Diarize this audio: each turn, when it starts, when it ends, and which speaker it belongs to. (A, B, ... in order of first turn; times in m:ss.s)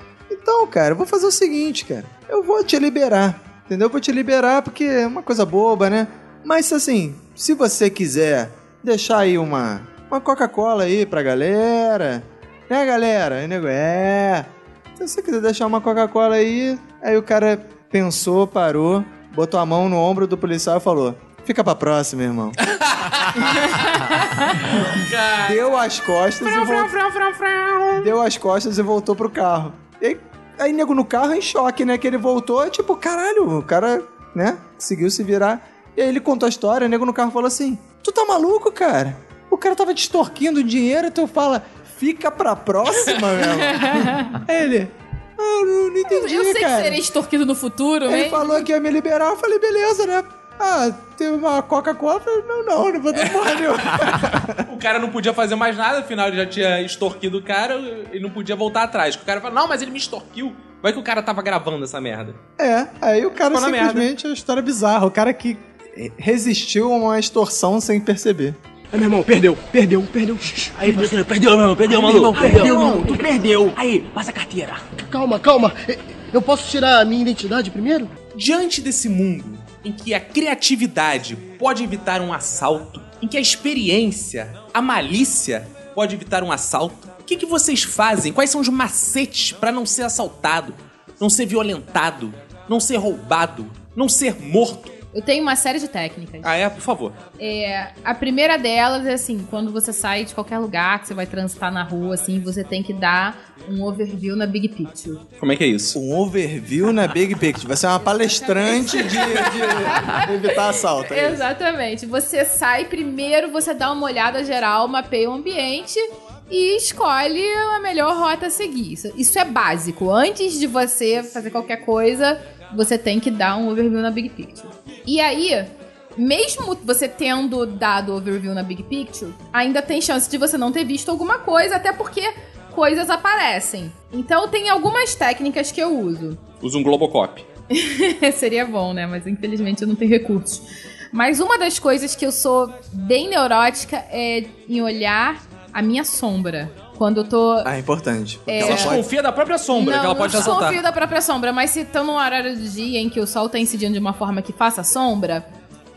0:00.3-0:22.6 A
0:22.6-0:25.8 B
0:23.7-0:24.5 C
0:25.4-0:27.0 A
0:26.4-0:28.1 B
0:28.0-0:47.0 A
0:43.7-0:44.4 C
0:46.0-0:48.7 C
0:48.1-0:54.7 A
0:53.1-1:02.4 B
1:02.6-1:08.6 A
1:03.4-1:04.1 B
1:08.9-1:18.1 D
1:12.1-1:12.8 B
1:12.2-1:13.0 A
1:18.3-1:35.0 B
1:35.1-1:36.6 C
1:36.4-1:37.2 B
1:37.4-1:45.2 C
1:45.4-1:46.0 B
1:46.0-1:51.4 A
1:48.3-2:16.4 C
2:16.6-2:17.4 B
2:17.7-2:27.7 C
2:27.6-2:29.0 A
2:28.5-2:29.0 C
2:28.6-2:30.8 B
2:29.7-2:35.4 C